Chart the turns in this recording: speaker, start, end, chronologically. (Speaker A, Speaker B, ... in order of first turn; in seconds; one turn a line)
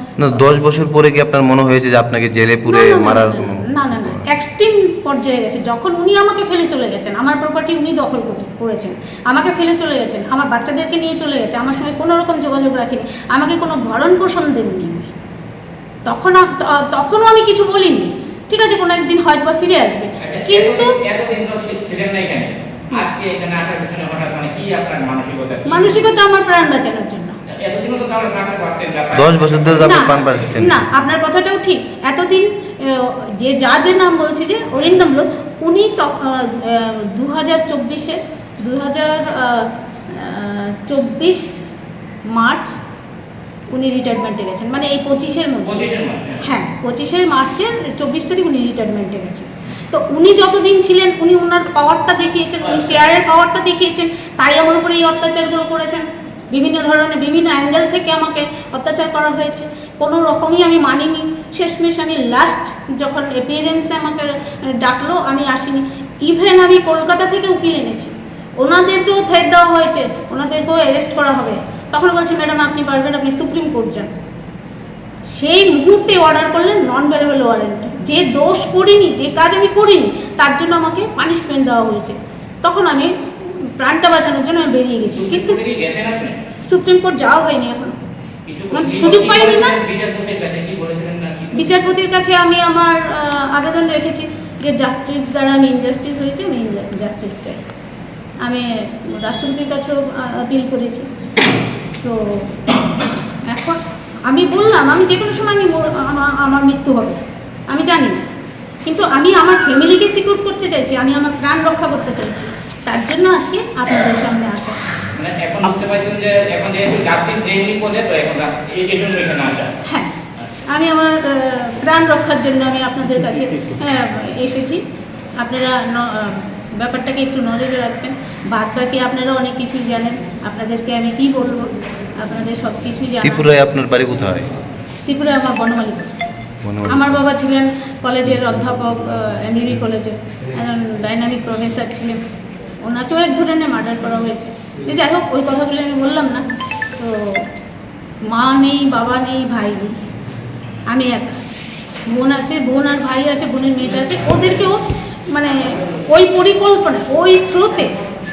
Speaker A: 0.2-4.2
Speaker B: 2.7-15.1
Speaker B: 16.1-20.9
Speaker C: 20.2-26.0
Speaker B: 25.7-27.3
Speaker C: 27.6-30.5
Speaker A: 29.1-30.8
Speaker B: 29.8-41.5
Speaker B: 42.3-42.8
Speaker B: 43.7-45.9
Speaker C: 45.6-46.4
Speaker B: 46.4-74.1
Speaker C: 52.6-53.1
Speaker B: 75.3-83.1
Speaker B: 83.8-85.6
Speaker C: 85.1-86.4
Speaker B: 86.7-88.0
Speaker C: 88.5-91.8
Speaker B: 88.7-89.8
Speaker B: 91.5-97.6
Speaker B: 98.4-101.1
Speaker B: 102.0-102.7
Speaker B: 103.5-107.2
Speaker B: 107.7-108.2
Speaker B: 108.9-114.8
Speaker C: 115.2-119.7
Speaker B: 119.8-120.1
Speaker B: 120.7-124.8
Speaker B: 125.4-133.5
Speaker A: 133.2-134.5
Speaker B: 135.1-136.1
Speaker A: 136.6-137.2
Speaker B: 136.9-142.2
Speaker B: 142.8-146.4
Speaker B: 147.0-147.5
Speaker B: 148.3-150.0
Speaker B: 150.9-151.4
Speaker B: 152.1-157.9